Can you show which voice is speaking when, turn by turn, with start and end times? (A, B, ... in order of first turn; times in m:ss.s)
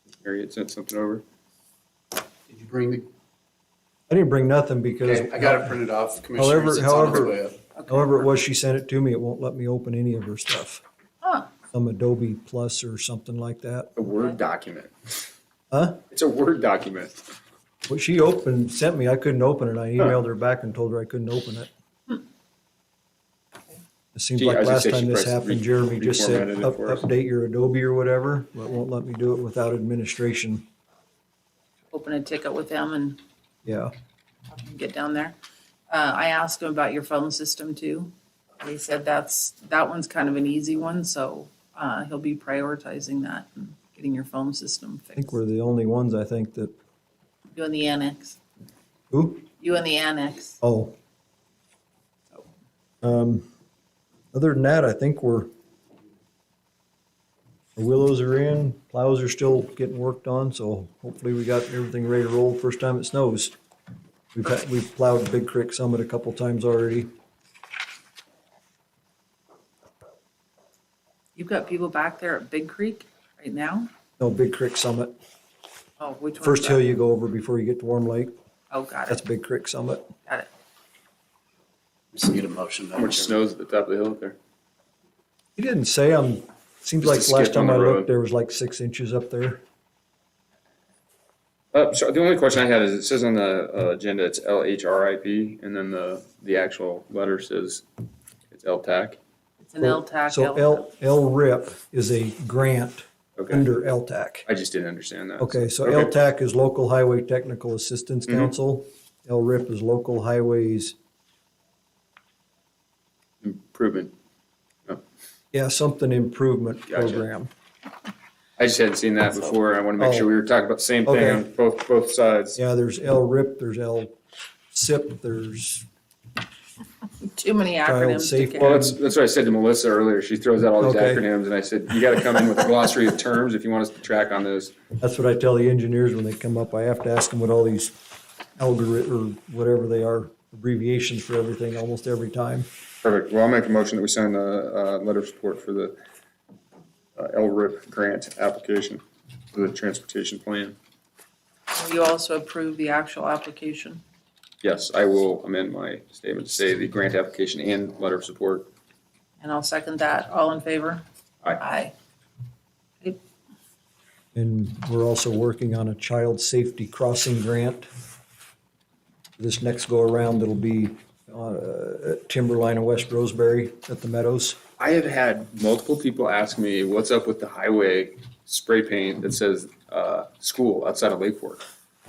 0:00.2-0:01.2 A
0:02.5-0:03.1 B
0:04.1-0:05.8 C
0:05.0-0:07.6 B
0:06.3-0:10.8 C
0:07.7-0:08.2 D
0:11.2-0:11.5 D
0:11.7-0:13.9 C
0:14.0-0:14.9 A
0:15.7-0:16.0 C
0:16.1-0:17.2 A
0:17.8-0:21.7 C
0:24.1-0:30.6 C
0:24.4-0:27.0 A
0:31.9-0:33.2 D
0:33.6-0:33.9 C
0:34.5-0:35.4 D
0:35.9-0:45.4 D
0:45.2-0:46.7 C
0:47.5-0:48.4 D
0:49.1-0:49.4 C
0:49.6-0:50.6 D
0:50.6-0:50.9 C
0:53.0-0:53.4 C
0:54.3-0:55.5 C
0:57.8-1:03.5 C
1:04.3-1:07.1 C
1:11.4-1:13.9 D
1:14.2-1:15.1 C
1:16.0-1:16.9 D
1:16.4-1:18.3 C
1:18.7-1:19.2 D
1:19.1-1:20.1 C
1:22.1-1:23.3 B
1:22.9-1:24.4 A
1:25.6-1:29.6 C
1:27.0-1:28.1 A
1:31.7-1:37.8 A
1:38.5-1:39.2 A
1:39.6-1:40.9 D
1:39.8-1:44.4 C
1:43.4-1:43.6 A
1:44.4-1:46.1 A
1:45.4-1:50.9 C
1:53.4-1:54.1 A
1:55.5-1:57.5 C
1:56.9-1:57.2 A
1:58.6-2:02.6 A
2:00.0-2:00.3 C
2:01.0-2:01.4 C
2:02.6-2:04.1 C
2:04.7-2:05.8 C
2:07.2-2:08.8 D
2:07.8-2:09.0 C
2:08.6-2:14.7 A
2:10.8-2:11.2 C
2:15.0-2:17.9 C
2:18.6-2:22.7 C
2:23.0-2:26.0 A
2:27.2-2:29.0 A
2:29.5-2:30.8 A
2:31.7-2:34.0 D
2:34.6-2:38.7 A
2:39.4-2:41.0 D
2:41.6-2:41.9 D
2:44.3-2:47.9 C
2:49.4-2:54.6 C
2:54.8-3:01.6 A